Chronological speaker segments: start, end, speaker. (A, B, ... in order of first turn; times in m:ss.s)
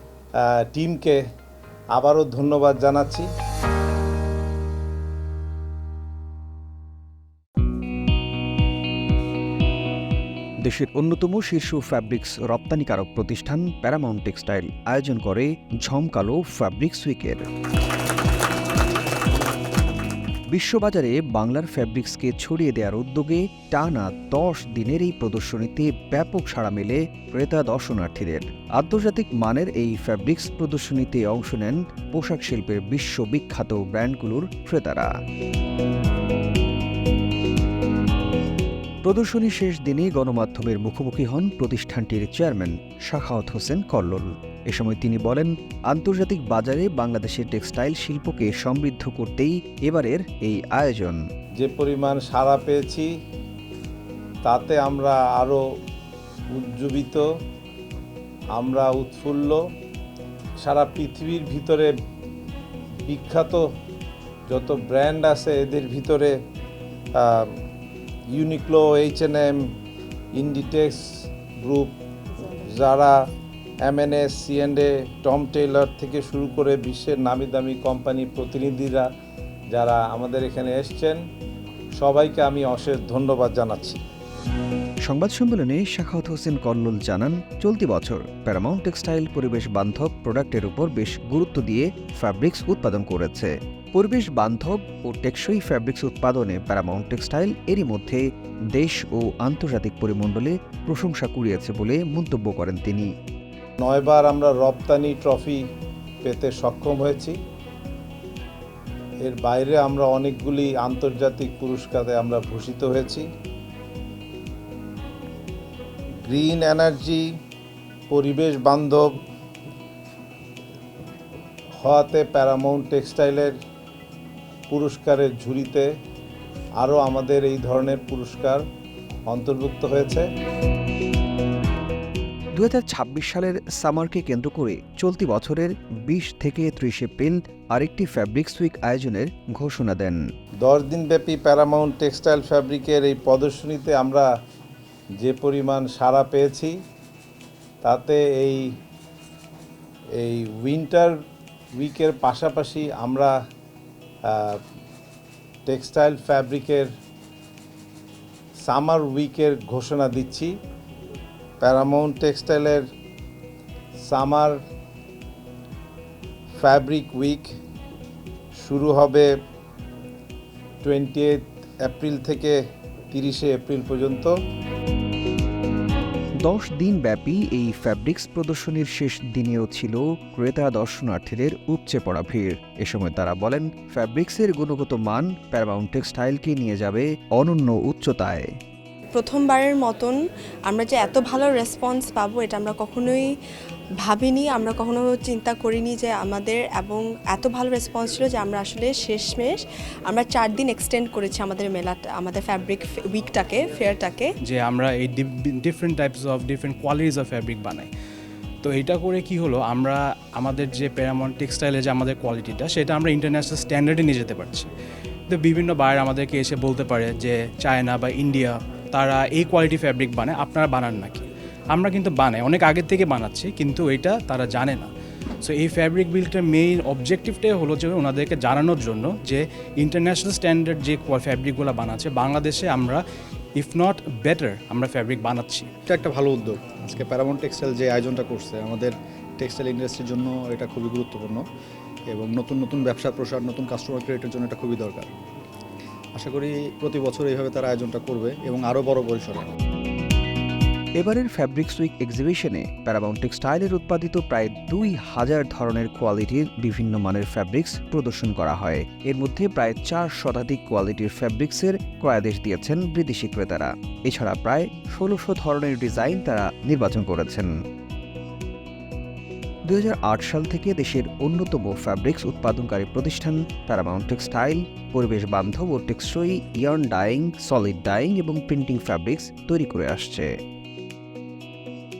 0:00.5-0:01.2 A
0:01.9-0:03.3 A
0:10.6-0:17.4 B
0:20.5-0:35.1 B
0:39.0-0:51.2 B
0:51.6-0:53.1 A
0:54.4-0:55.6 A
0:56.5-0:57.2 A
0:58.5-0:59.6 A
1:00.6-1:01.9 A
1:03.0-1:03.6 A
1:04.5-1:06.3 A
1:07.2-1:07.6 A
1:08.3-1:09.6 A
1:10.3-1:11.0 A
1:11.6-1:13.2 A
1:13.8-1:19.0 A
1:19.7-1:21.2 A
1:22.0-1:24.0 A
1:25.0-1:43.1 B
1:43.8-1:45.6 A
1:46.2-1:47.4 A
1:49.2-1:53.3 A
1:56.2-1:57.2 A
1:58.1-1:59.1 A
2:01.8-2:03.5 A
2:04.7-2:05.9 A
2:06.8-2:08.6 A
2:09.3-2:10.3 A
2:12.5-2:20.2 B
2:20.6-2:24.3 A
2:25.2-2:26.8 A
2:27.8-2:28.7 A
2:30.2-2:31.1 A
2:31.8-2:33.3 A
2:34.3-2:34.6 A
2:35.6-2:36.9 A
2:38.6-2:40.5 A
2:41.6-2:42.8 A
2:44.0-2:44.6 A
2:46.6-2:47.5 A
2:48.6-2:49.3 A
2:50.8-2:52.6 A
2:53.1-2:54.3 A
2:56.4-3:08.5 B
3:09.1-3:13.3 C
3:14.0-3:24.3 C
3:24.4-3:27.9 D
3:28.6-3:34.7 D
3:35.3-3:44.9 D
3:45.4-3:53.0 D
3:53.6-3:55.7 D
3:55.9-4:01.4 E
4:02.1-4:05.1 E
4:06.1-4:09.5 E
4:11.0-4:27.5 B
4:29.7-4:40.3 B